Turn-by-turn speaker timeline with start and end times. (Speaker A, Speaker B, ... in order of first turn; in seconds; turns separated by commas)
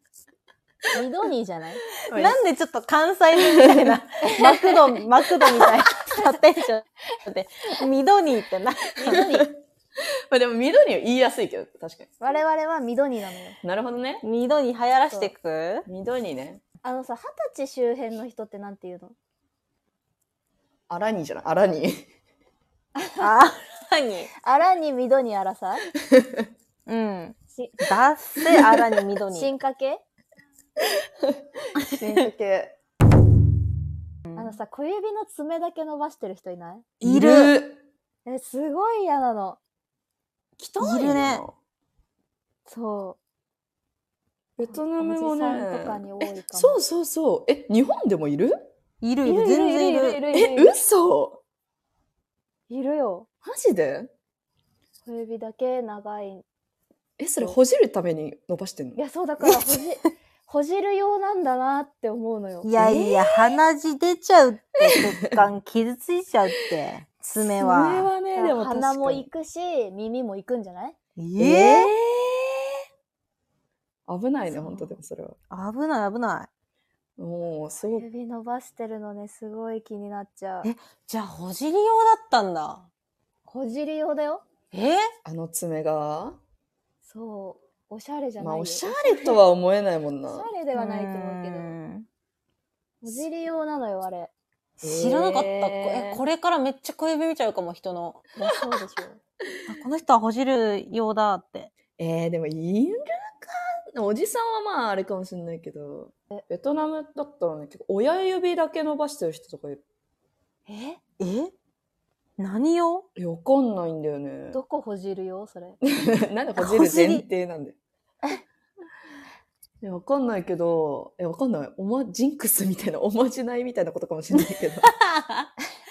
Speaker A: 0.9-1.9, Speaker B: 2.0-2.4, Speaker C: 2.1-9.4, Speaker B: 3.4-3.9, Speaker A: 4.2-4.8, Speaker A: 9.0-9.5, Speaker B: 9.1-9.5, Speaker B: 10.3-12.1, Speaker A: 12.2-13.6, Speaker B: 13.6-14.2, Speaker C: 14.2-15.9, Speaker B: 15.9-16.6, Speaker A: 16.8-19.1, Speaker B: 20.9-22.1, Speaker A: 23.0-23.3, Speaker C: 23.2-24.3, Speaker A: 24.4-25.9, Speaker B: 26.1-26.4, Speaker C: 26.9-29.5, Speaker A: 27.5-27.9, Speaker B: 28.5-28.8, Speaker A: 29.3-30.0, Speaker B: 31.9-32.8, Speaker C: 34.3-34.6, Speaker A: 34.4-36.9, Speaker B: 37.0-37.8, Speaker C: 37.0-37.6, Speaker A: 38.3-39.6, Speaker B: 40.6-41.5, Speaker C: 40.8-41.4, Speaker A: 42.7-43.2, Speaker B: 44.6-48.5, Speaker A: 44.7-46.8, Speaker C: 49.0-50.2, Speaker A: 49.2-50.8, Speaker B: 50.3-51.4, Speaker A: 52.7-53.3, Speaker B: 53.5-54.1, Speaker A: 55.0-56.4, Speaker B: 57.2-59.0, Speaker A: 59.0-62.7, Speaker C: 62.6-68.1, Speaker B: 62.8-63.0, Speaker B: 67.6-69.3, Speaker A: 68.3-71.0, Speaker C: 71.2-71.9, Speaker B: 71.4-72.8, Speaker B: 74.1-75.4, Speaker C: 74.7-74.9, Speaker C: 75.5-76.5, Speaker B: 77.2-78.0, Speaker A: 77.9-80.7, Speaker C: 80.6-82.9, Speaker A: 83.5-84.4, Speaker C: 84.7-85.1, Speaker B: 85.2-86.4, Speaker A: 87.0-89.4, Speaker B: 88.4-90.5, Speaker A: 90.3-91.8, Speaker C: 90.8-92.1, Speaker A: 93.0-94.3, Speaker C: 94.8-98.2, Speaker B: 94.8-96.2, Speaker A: 98.4-99.2, Speaker C: 99.7-101.7, Speaker B: 102.0-109.8, Speaker A: 110.7-111.0, Speaker C: 111.2-111.5, Speaker C: 112.4-113.1, Speaker B: 113.2-114.6, Speaker A: 114.5-115.8, Speaker B: 115.8-117.8, Speaker C: 116.6-117.2, Speaker B: 119.8-124.9, Speaker C: 124.8-125.5